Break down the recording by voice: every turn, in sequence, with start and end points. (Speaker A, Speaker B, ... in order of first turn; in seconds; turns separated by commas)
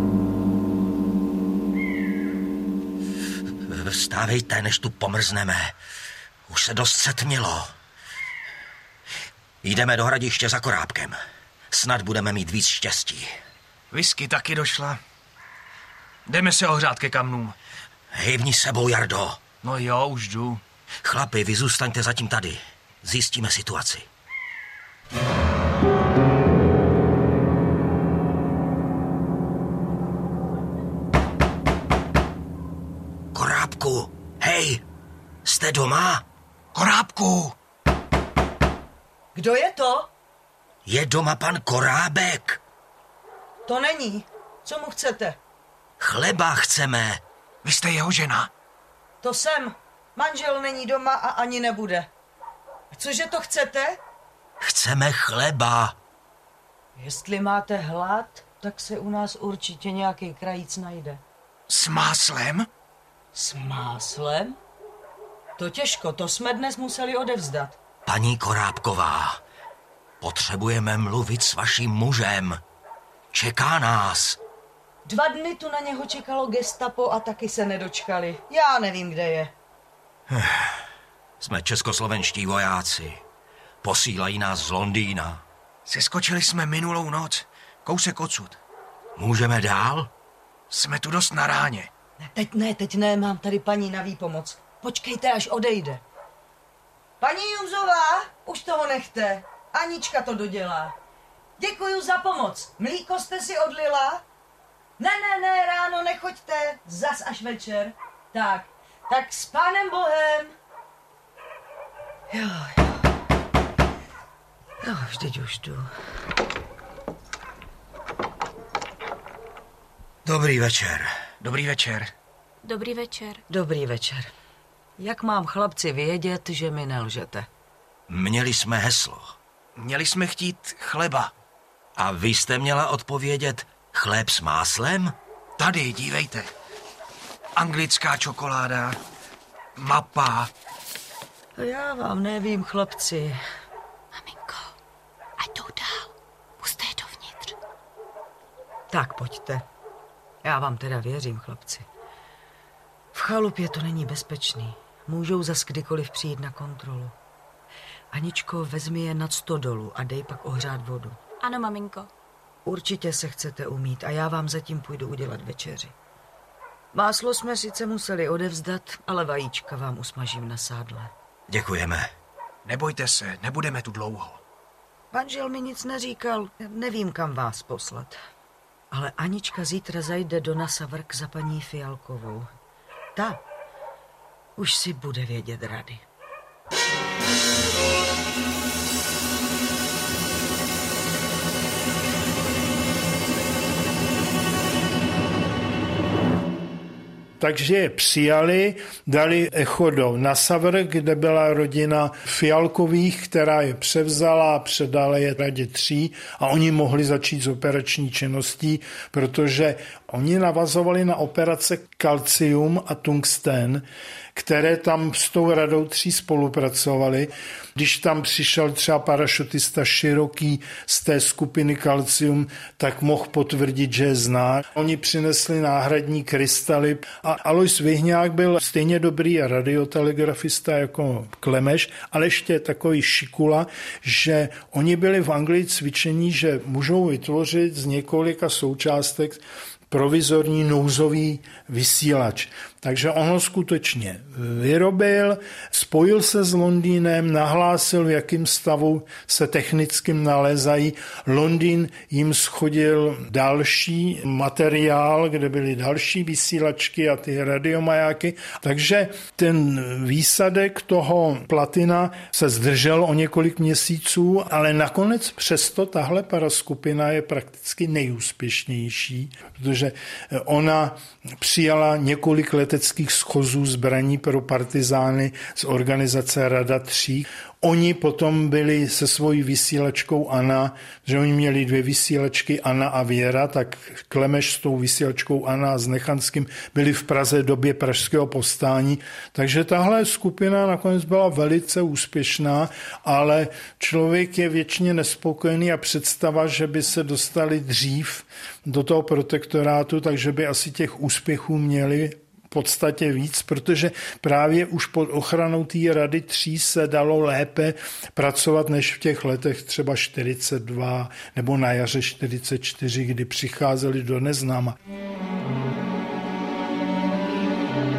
Speaker A: 3.6-5.8, Speaker A: 6.5-7.7, Speaker A: 9.6-11.2, Speaker A: 11.7-13.3, Speaker B: 13.9-15.0, Speaker B: 16.3-17.5, Speaker A: 18.1-19.5, Speaker B: 19.6-20.6, Speaker A: 21.0-24.1, Speaker A: 33.3-34.8, Speaker A: 35.4-36.2, Speaker B: 36.7-37.5, Speaker C: 39.3-40.1, Speaker A: 40.9-42.6, Speaker C: 43.6-45.4, Speaker A: 46.0-47.2, Speaker B: 47.6-48.5, Speaker C: 49.2-52.1, Speaker C: 52.9-54.0, Speaker A: 54.6-56.0, Speaker C: 57.0-61.2, Speaker B: 61.7-62.7, Speaker C: 63.3-64.6, Speaker C: 65.6-67.8, Speaker A: 68.0-69.4, Speaker A: 70.2-72.6, Speaker A: 73.3-74.4, Speaker C: 75.0-79.5, Speaker A: 80.3-80.7, Speaker A: 81.4-83.2, Speaker A: 83.8-85.4, Speaker B: 85.8-88.6, Speaker A: 89.2-90.1, Speaker B: 90.7-91.9, Speaker C: 92.2-96.0, Speaker C: 97.2-100.9, Speaker C: 101.6-104.2, Speaker C: 105.0-110.5, Speaker C: 112.3-113.0, Speaker C: 114.8-115.9, Speaker A: 120.2-121.1, Speaker B: 121.4-122.1, Speaker D: 122.6-123.4, Speaker C: 123.5-124.3, Speaker C: 125.0-127.5, Speaker A: 128.1-129.3, Speaker B: 129.8-131.3, Speaker A: 131.9-135.1, Speaker B: 135.6-136.5, Speaker B: 137.6-139.0, Speaker B: 139.8-140.5, Speaker C: 141.6-143.4, Speaker D: 144.2-144.7, Speaker D: 145.4-147.5, Speaker C: 148.9-149.6, Speaker C: 150.4-151.9, Speaker C: 153.1-157.1, Speaker C: 158.1-161.2, Speaker D: 161.4-162.1, Speaker C: 162.6-165.9, Speaker C: 166.9-171.1, Speaker A: 171.5-172.1, Speaker B: 172.6-174.4, Speaker C: 175.1-178.2, Speaker C: 178.9-182.5, Speaker C: 183.1-183.4, Speaker C: 184.6-186.0, Speaker E: 197.4-314.8